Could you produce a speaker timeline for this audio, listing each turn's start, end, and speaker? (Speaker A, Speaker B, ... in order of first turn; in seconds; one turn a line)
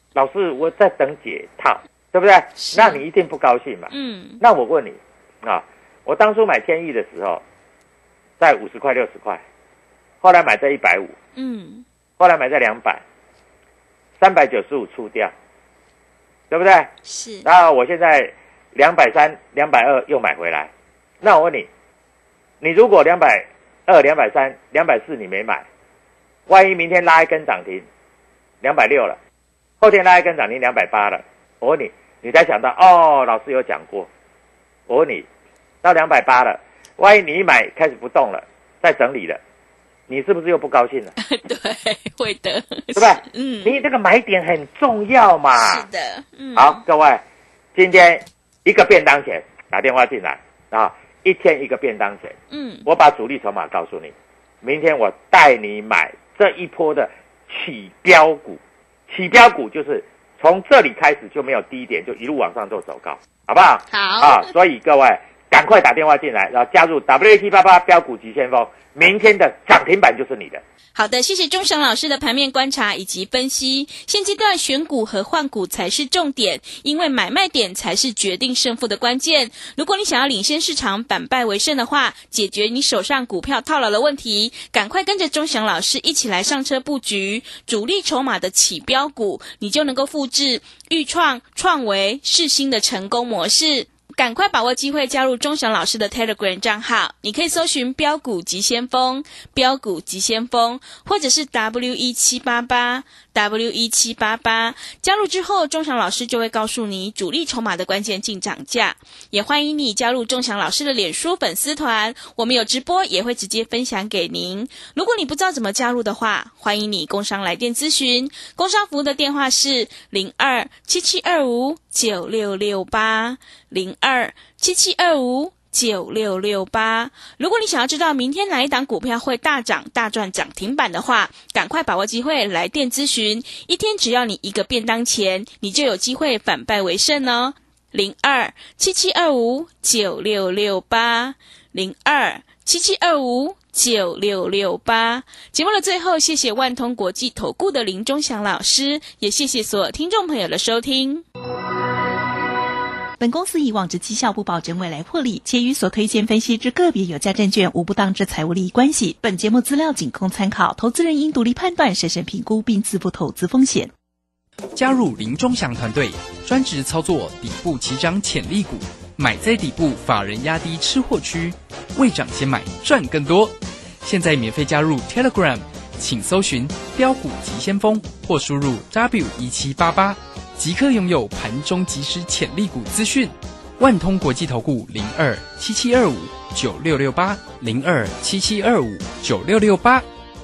Speaker A: 0.1-7.4
Speaker B: 2.6-3.0
Speaker B: 3.9-4.4
Speaker A: 8.4-9.4
Speaker A: 10.2-11.1
Speaker B: 11.3-11.8
Speaker A: 12.2-13.0
Speaker A: 14.2-15.3
Speaker A: 16.5-16.9
Speaker B: 17.0-17.5
Speaker A: 17.4-20.7
Speaker A: 21.2-21.7
Speaker A: 22.6-25.6
Speaker A: 26.5-27.8
Speaker A: 28.6-29.2
Speaker A: 29.8-34.1
Speaker A: 34.9-35.2
Speaker A: 35.8-39.4
Speaker A: 40.1-41.1
Speaker B: 41.2-43.8
Speaker A: 43.0-45.8
Speaker B: 45.5-46.8
Speaker A: 46.5-47.2
Speaker A: 47.7-70.6
Speaker B: 52.5-52.9
Speaker B: 63.9-64.4
Speaker B: 70.9-151.2
Speaker C: 153.2-163.9
Speaker D: 164.7-190.1